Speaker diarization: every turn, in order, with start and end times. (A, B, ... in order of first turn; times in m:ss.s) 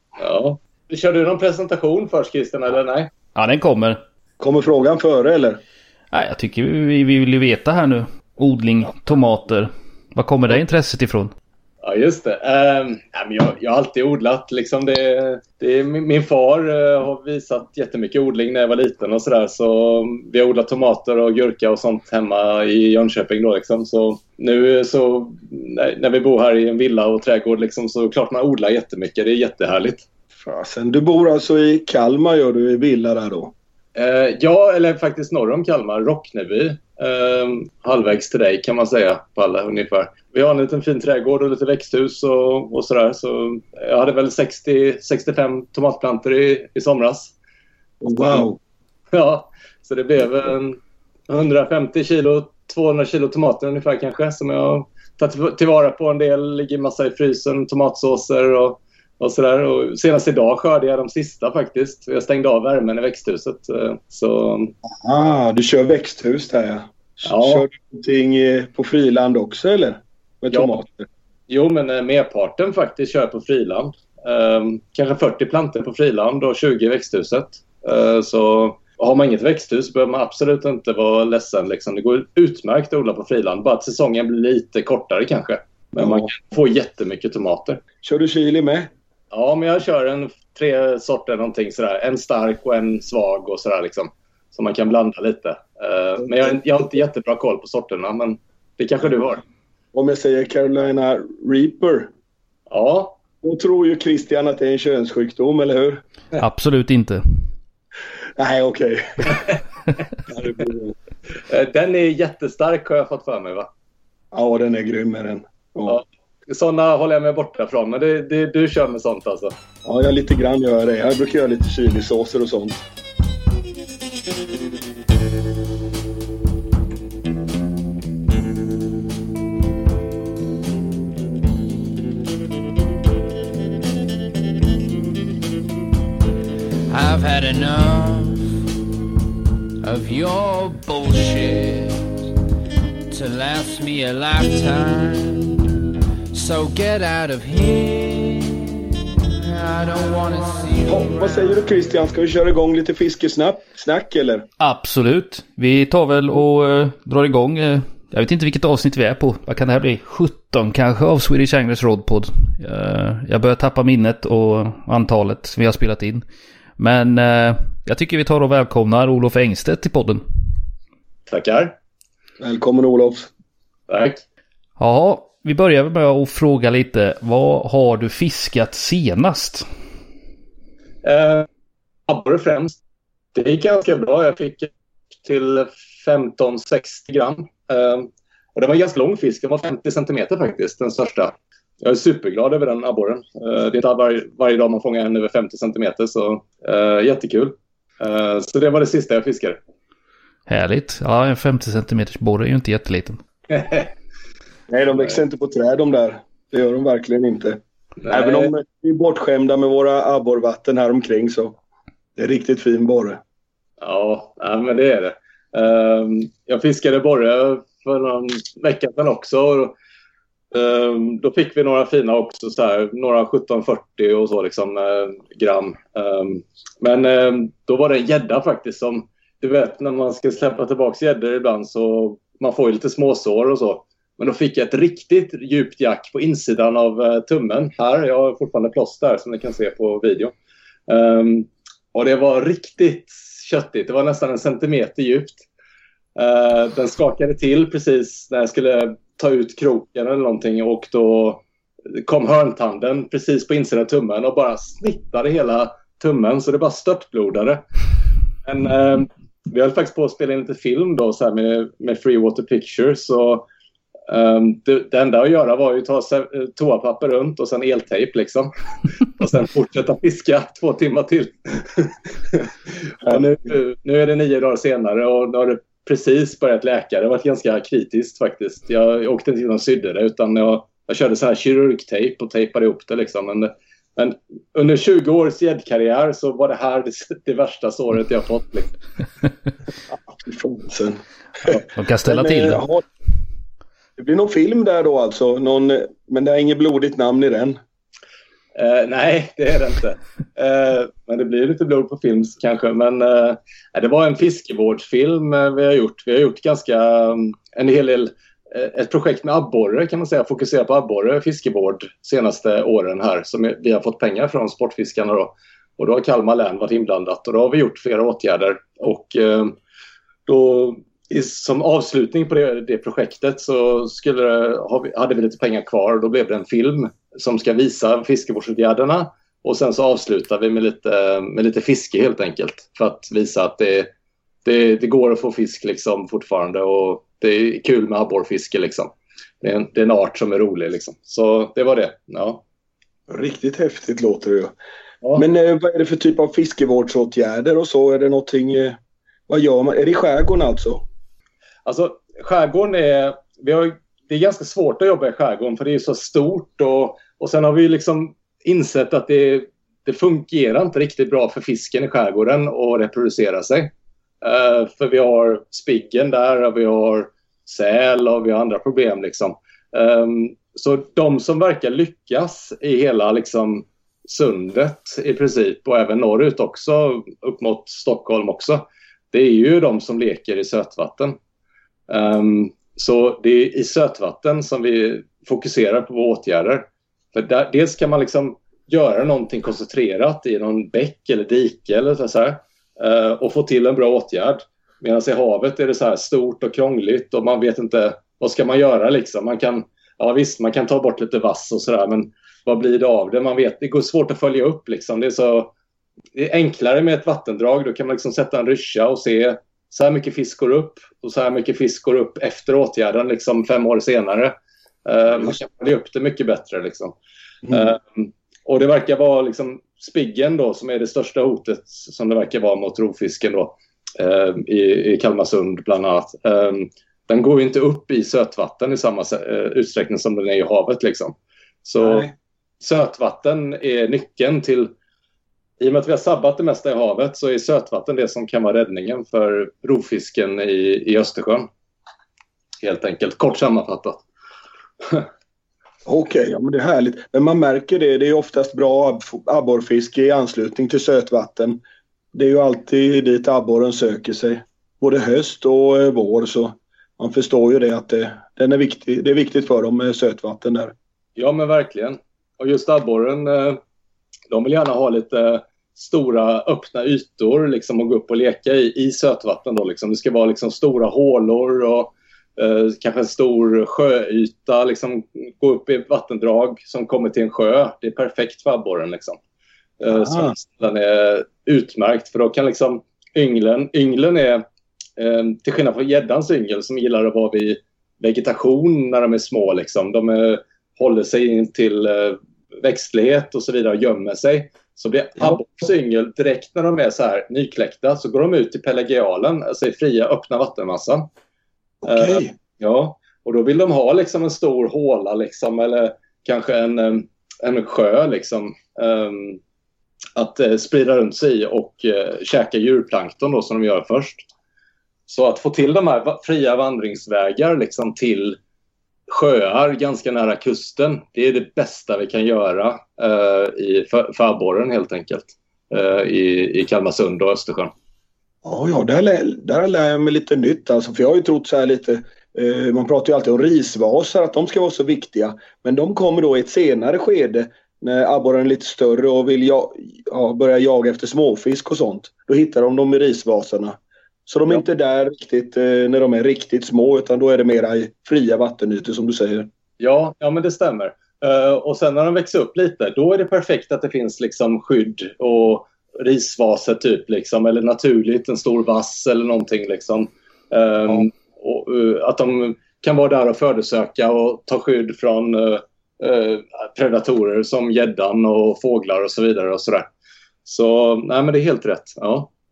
0:00.2-0:03.1 A
0:03.4-0:04.0 B
0:04.4-0:05.6 C
0:06.1-0:11.3 B
0:11.8-0:30.0 A
0:30.4-0:33.5 C
0:34.0-0:47.3 A
0:48.0-0:48.6 C
0:48.1-0:48.5 A
0:49.1-1:04.7 A
1:04.8-1:11.1 C
1:07.2-1:07.7 A
1:10.5-1:10.8 A
1:11.5-1:27.8 A
1:26.0-1:26.3 C
1:28.0-1:28.9 C
1:29.3-1:39.4 A
1:39.9-1:42.1 C
1:42.7-1:43.2 A
1:43.4-1:46.0 C
1:46.4-1:47.5 B
1:48.4-1:49.5 C
1:50.3-1:51.0 C
1:51.4-1:53.7 A
1:54.3-1:56.0 C
1:55.9-1:59.5 A
1:59.8-2:02.8 C
2:16.9-2:18.6 D
2:19.8-2:22.1 D
2:23.1-2:25.6 D
2:26.3-2:28.7 D
2:29.3-2:31.6 D
2:30.9-2:34.5 C
2:34.6-2:46.2 B
2:46.8-2:50.2 B
2:51.3-2:51.8 A
2:52.4-2:53.3 C
2:53.9-2:54.2 A
2:54.8-2:59.7 B
3:01.0-3:01.5 A
3:02.1-3:02.8 A
3:03.3-3:04.7 A
3:05.2-3:19.6 A
3:20.5-3:23.2 B
3:23.5-3:23.9 A
3:24.7-3:27.6 C
3:28.0-3:28.5 A
3:28.1-3:31.6 C
3:32.2-3:33.2 C
3:33.8-3:39.8 A
3:40.5-4:00.3 A
4:00.9-4:05.5 A
4:06.2-4:11.4 A
4:11.9-4:17.6 A
4:18.4-4:23.4 A
4:24.1-4:28.5 A
4:29.0-4:48.8 A
4:50.1-4:52.8 C
4:51.7-4:52.6 B
4:54.0-4:57.6 C
4:58.6-5:19.6 A
5:20.3-5:33.9 A
5:34.4-5:42.4 A
5:43.1-5:44.5 C
5:45.2-5:48.8 C
5:49.3-5:50.8 C
5:51.7-6:21.2 A
6:21.9-6:45.5 A
6:46.2-6:54.3 A
6:54.9-6:57.0 A
6:57.5-7:12.1 A
7:11.8-7:12.1 C
7:12.6-7:14.7 A
7:15.6-7:21.5 A
7:22.6-7:24.0 A
7:24.8-7:25.1 A
7:25.9-7:31.6 C
7:32.1-7:40.7 C
7:41.2-7:43.6 A
7:44.3-7:59.2 A
7:59.8-8:04.4 A
7:59.9-8:00.3 C
8:05.0-8:21.1 A
8:21.8-8:22.3 C
8:21.9-8:29.4 A
8:30.2-8:34.3 A
8:35.1-8:38.4 A
8:39.1-8:47.7 A
8:48.4-9:09.5 C
9:09.8-9:29.9 A
9:30.4-9:32.3 A